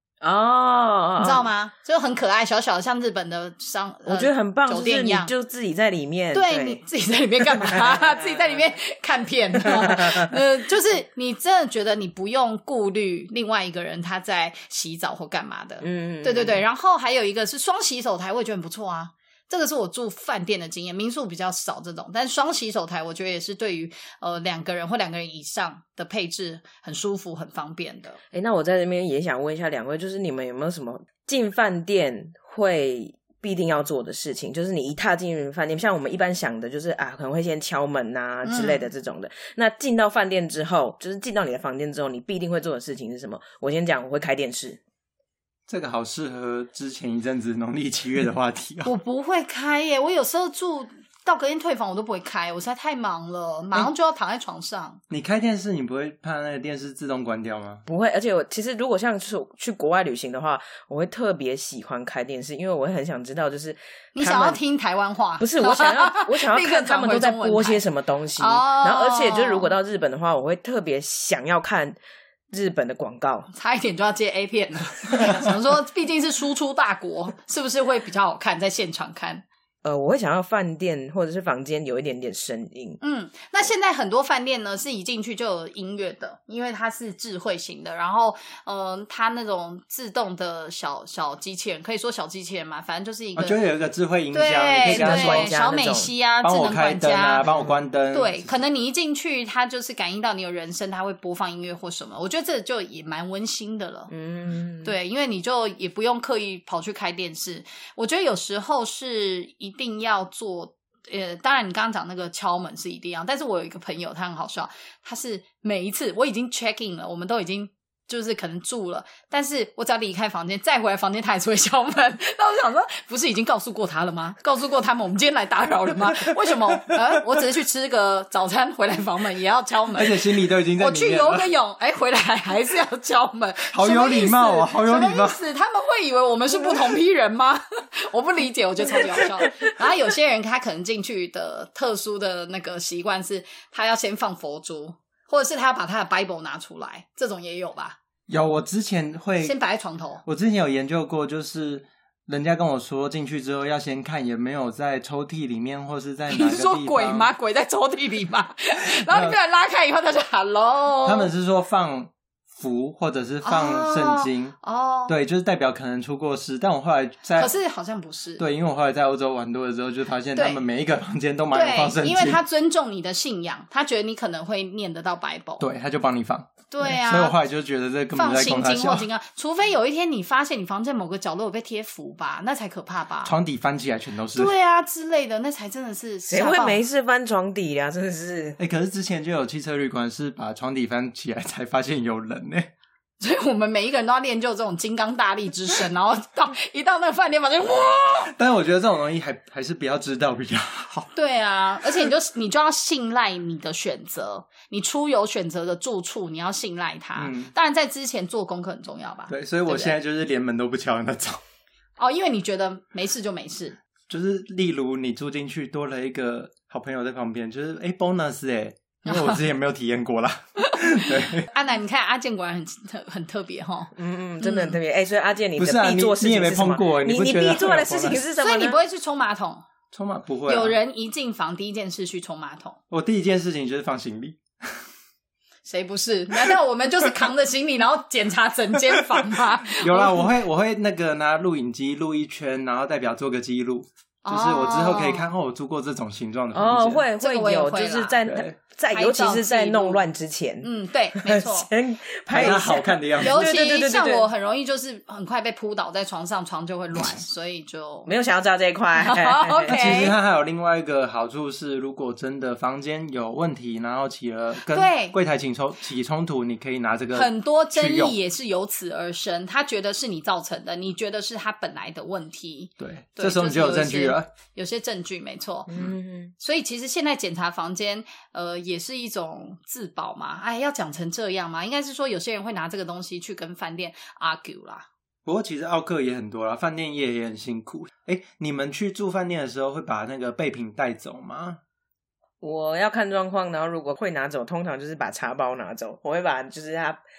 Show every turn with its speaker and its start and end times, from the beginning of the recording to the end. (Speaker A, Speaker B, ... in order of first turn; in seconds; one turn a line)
Speaker A: 0.2-1.5
Speaker B: 1.2-5.3
Speaker A: 4.1-6.8
Speaker B: 6.3-28.2
Speaker A: 9.8-10.1
Speaker A: 15.8-16.6
Speaker A: 28.3-44.8
Speaker B: 38.4-38.9
Speaker C: 45.7-48.9
Speaker B: 48.9-55.0
Speaker C: 55.1-57.8
Speaker A: 57.9-64.6
Speaker B: 64.2-67.8
Speaker A: 65.4-72.0
Speaker B: 68.4-69.7
Speaker A: 72.5-73.5
Speaker B: 73.5-79.4
Speaker A: 79.8-83.0
Speaker B: 83.0-93.6
Speaker C: 93.4-95.5
Speaker B: 94.3-97.5
Speaker A: 94.8-96.1
Speaker C: 96.4-98.5
Speaker B: 98.1-104.1
Speaker A: 104.1-104.9
Speaker B: 104.8-148.0
Speaker C: 129.9-131.5
Speaker C: 133.7-135.4
Speaker C: 148.3-149.6
Speaker B: 149.4-150.2
Speaker C: 150.2-157.3
Speaker B: 156.3-161.3
Speaker C: 159.1-159.4
Speaker C: 161.1-164.6
Speaker B: 163.4-165.1
Speaker C: 165.1-167.5
Speaker B: 167.4-168.4
Speaker C: 168.4-172.4
Speaker B: 170.3-170.6
Speaker B: 171.5-175.6
Speaker C: 175.6-179.1
Speaker B: 176.7-177.4
Speaker B: 178.1-183.3
Speaker C: 183.2-184.5
Speaker B: 184.3-186.8
Speaker A: 186.3-188.6
Speaker C: 188.6-192.7
Speaker B: 193.2-198.3
Speaker C: 198.3-201.1
Speaker B: 201.1-210.0
Speaker C: 207.2-207.5
Speaker C: 209.3-211.4
Speaker B: 212.0-213.8
Speaker C: 214.1-221.5
Speaker B: 219.1-219.4
Speaker B: 221.1-224.8
Speaker A: 223.9-228.8
Speaker C: 225.6-228.2
Speaker B: 228.4-229.6
Speaker C: 229.9-230.8
Speaker B: 230.5-232.8
Speaker C: 232.9-234.4
Speaker B: 235.7-240.3
Speaker C: 238.9-239.2
Speaker C: 239.8-247.1
Speaker B: 244.2-245.2
Speaker A: 246.5-254.3
Speaker B: 247.2-248.2
Speaker C: 248.2-248.5
Speaker B: 248.9-250.0
Speaker B: 250.6-251.7
Speaker B: 252.3-258.1
Speaker C: 252.3-253.5
Speaker A: 258.1-260.1
Speaker B: 258.9-260.2
Speaker C: 259.7-268.1
Speaker B: 264.7-265.2
Speaker B: 267.1-275.7
Speaker C: 272.8-274.3
Speaker A: 275.7-276.3
Speaker B: 276.4-284.9
Speaker C: 285.3-291.6
Speaker A: 292.4-297.0